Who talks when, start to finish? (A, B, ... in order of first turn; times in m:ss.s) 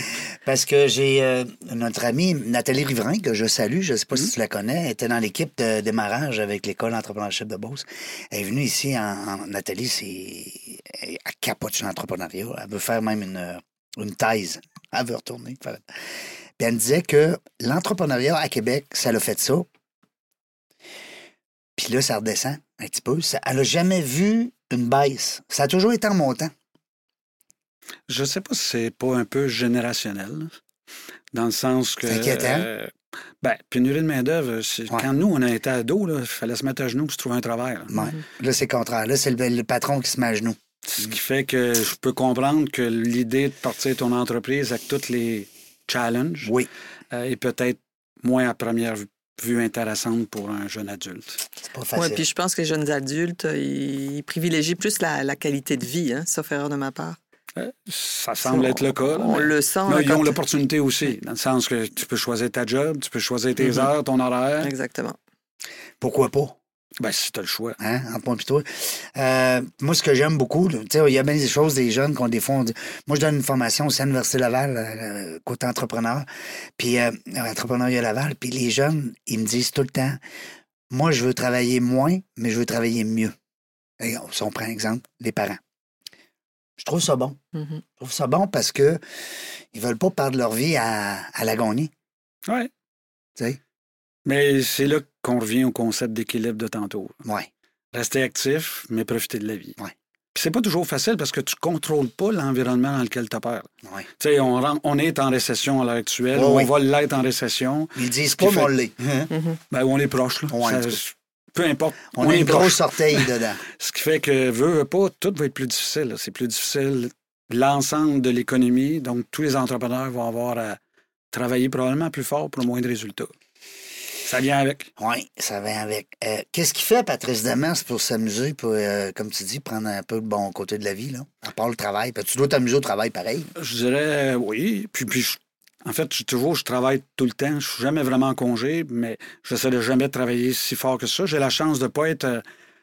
0:00.1-0:15.8 A
0:16.6-0:19.7 A
0:21.8-0:26.5 A
0:28.1-0:30.5 B
0:31.3-0:37.9 B
0:32.1-0:32.7 A
0:37.9-0:41.1 A
0:40.8-0:46.5 B
0:47.1-0:51.4 B
0:51.6-0:52.3 A
0:51.9-0:57.2 C
0:57.6-1:04.7 B
0:58.4-1:00.4 C
1:04.6-1:05.2 C
1:06.0-1:06.6 A
1:07.0-1:07.8 B
1:07.8-1:20.2 A
1:20.9-1:23.4 A
1:24.0-1:25.6 A
1:26.8-1:27.4 A
1:27.6-1:27.8 C
1:28.0-1:29.0 A
1:29.7-1:31.9 A
1:34.2-1:37.2 B
1:37.2-1:37.5 A
1:37.9-1:39.8 B
1:40.3-1:43.7 B
1:44.2-1:48.7 B
1:46.3-1:46.7 A
1:48.0-1:49.3 A
1:49.7-2:00.8 B
1:50.5-1:51.0 A
1:52.2-1:53.6 A
2:01.3-2:03.3 B
2:04.2-2:04.9 B
2:05.0-2:13.5 A
2:13.6-2:22.4 B